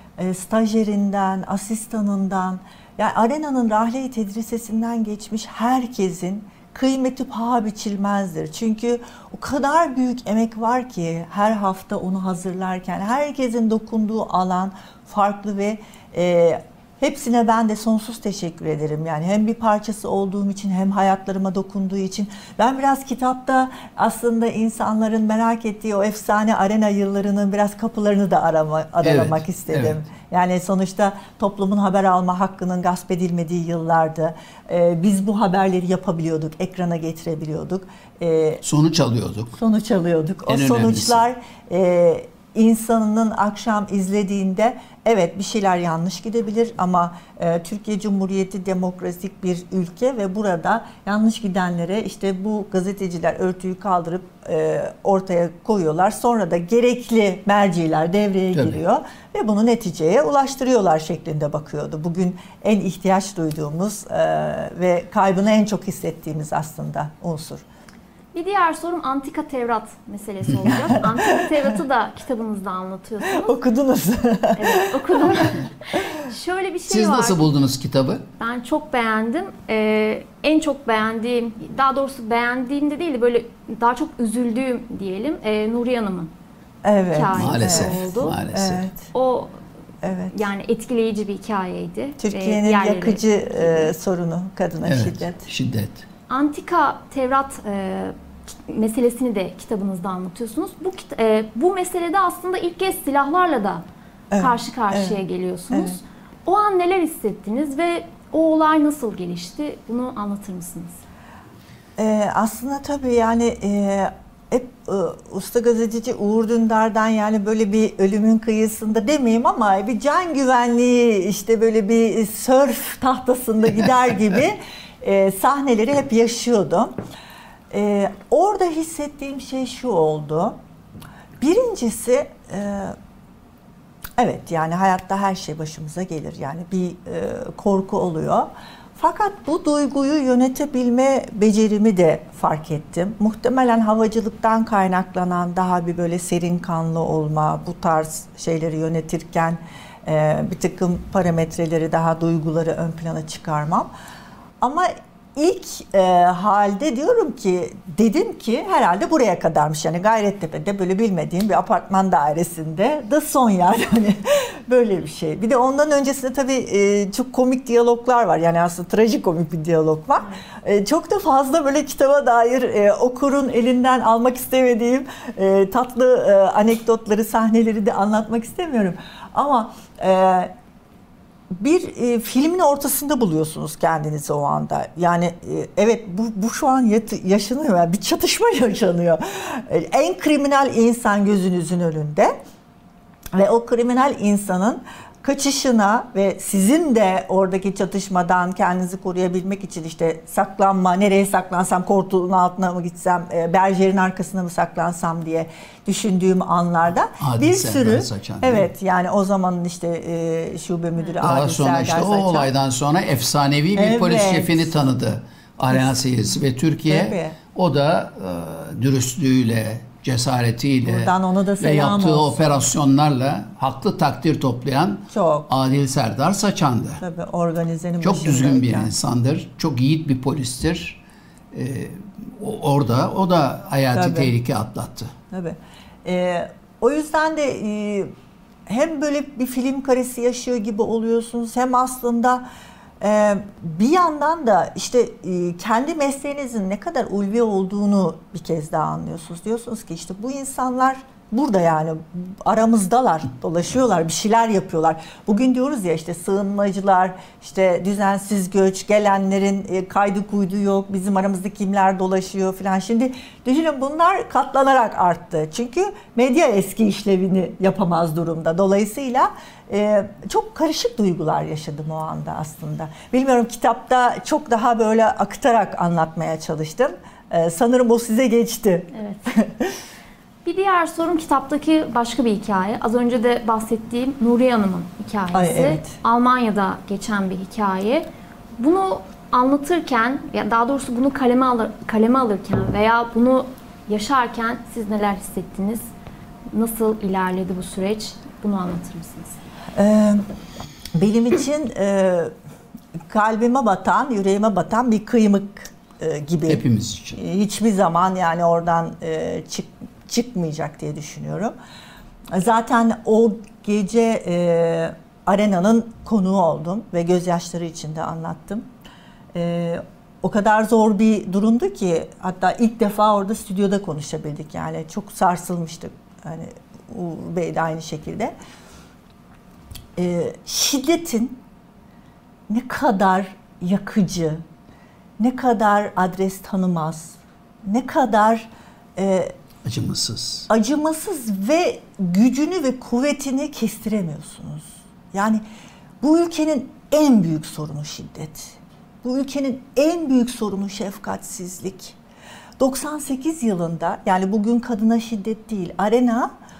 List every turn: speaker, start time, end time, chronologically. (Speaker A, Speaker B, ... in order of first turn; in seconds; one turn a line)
Speaker A: 0.2-38.6
Speaker B: 29.0-30.0
Speaker B: 38.6-39.6
Speaker A: 39.5-67.6
Speaker B: 40.5-41.3
Speaker B: 58.5-58.8
Speaker C: 68.3-73.5
Speaker A: 70.7-71.7
Speaker A: 73.2-76.0
Speaker C: 74.5-77.5
Speaker B: 76.9-78.2
Speaker C: 78.4-86.3
Speaker A: 86.8-89.1
Speaker C: 87.0-88.4
Speaker B: 87.3-88.9
Speaker C: 89.1-89.5
Speaker A: 90.0-90.4
Speaker C: 90.3-93.9
Speaker A: 92.2-95.4
Speaker B: 94.8-96.0
Speaker C: 96.3-103.8
Speaker A: 104.3-105.2
Speaker C: 104.4-111.0
Speaker A: 105.7-106.0
Speaker A: 112.0-126.9
Speaker A: 127.7-130.5
Speaker A: 131.4-132.9
Speaker A: 134.2-153.9
Speaker A: 154.6-180.5
Speaker A: 181.5-192.3
Speaker A: 193.3-212.5
Speaker B: 207.2-208.7
Speaker B: 211.2-227.0
Speaker A: 213.8-214.7
Speaker A: 216.9-217.3
Speaker A: 220.8-222.5
Speaker A: 225.1-225.5
Speaker A: 227.0-228.9
Speaker B: 228.0-231.0
Speaker B: 231.5-235.1
Speaker A: 233.9-234.3
Speaker A: 235.3-238.1
Speaker A: 238.7-242.4
Speaker A: 243.0-279.8
Speaker C: 278.9-279.2
Speaker C: 280.4-288.1
Speaker A: 285.3-285.9
Speaker C: 288.6-295.8
Speaker C: 296.5-299.4
Speaker A: 299.7-300.2
Speaker A: 300.9-302.3
Speaker A: 303.1-306.6
Speaker B: 306.5-307.2
Speaker A: 307.1-311.5
Speaker A: 312.3-318.7
Speaker A: 319.3-328.3
Speaker A: 329.9-331.4
Speaker A: 332.5-334.4
Speaker A: 335.2-339.3
Speaker B: 339.6-340.5
Speaker A: 340.5-345.4
Speaker A: 346.0-352.0
Speaker A: 352.6-356.3